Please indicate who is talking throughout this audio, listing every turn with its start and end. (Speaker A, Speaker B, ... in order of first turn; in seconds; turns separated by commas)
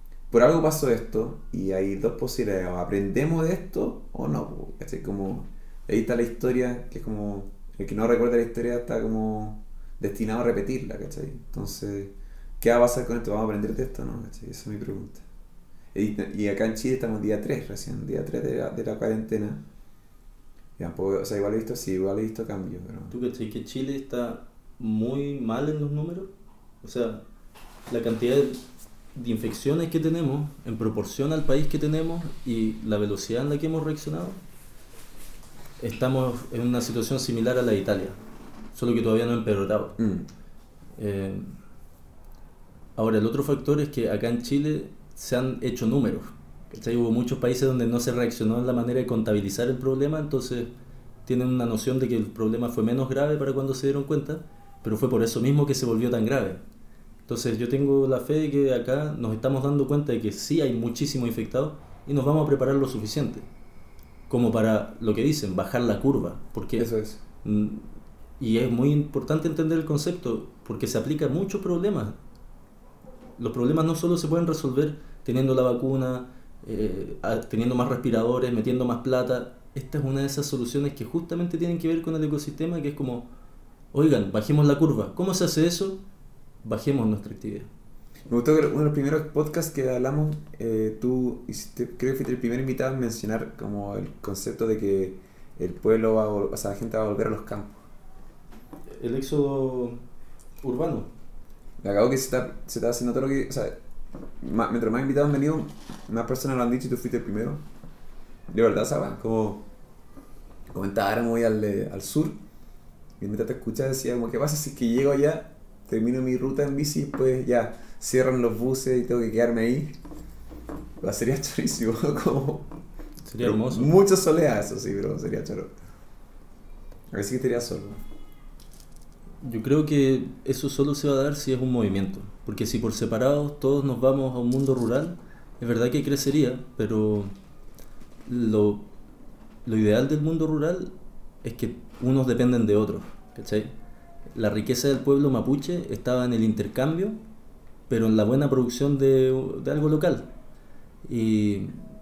Speaker A: 0.3-15.2, Speaker A: 15.9-19.6, Speaker A: 20.8-23.1, Speaker B: 23.1-26.3, Speaker B: 26.8-27.2, Speaker B: 27.9-28.6, Speaker B: 29.1-34.4, Speaker B: 35.8-38.2, Speaker B: 38.7-40.0, Speaker A: 40.0-40.3, Speaker B: 41.0-41.5, Speaker B: 43.0-50.7, Speaker B: 51.2-56.6, Speaker B: 57.3-63.5, Speaker B: 64.3-66.9, Speaker A: 66.8-67.2, Speaker B: 67.4-67.9, Speaker B: 68.4-72.2, Speaker B: 73.4-83.3, Speaker B: 83.9-86.0, Speaker B: 86.6-87.7, Speaker A: 88.3-97.8, Speaker B: 98.9-100.0, Speaker B: 100.6-101.1, Speaker A: 101.8-103.7, Speaker A: 104.4-107.6, Speaker A: 108.5-109.6, Speaker A: 110.7-112.4, Speaker A: 113.2-119.9, Speaker A: 121.0-122.8, Speaker B: 123.2-123.9, Speaker A: 123.4-125.7, Speaker A: 127.1-128.0, Speaker B: 129.4-137.3, Speaker B: 138.2-138.9, Speaker B: 139.6-143.7, Speaker B: 144.3-147.2, Speaker B: 147.9-150.3, Speaker B: 151.0-151.8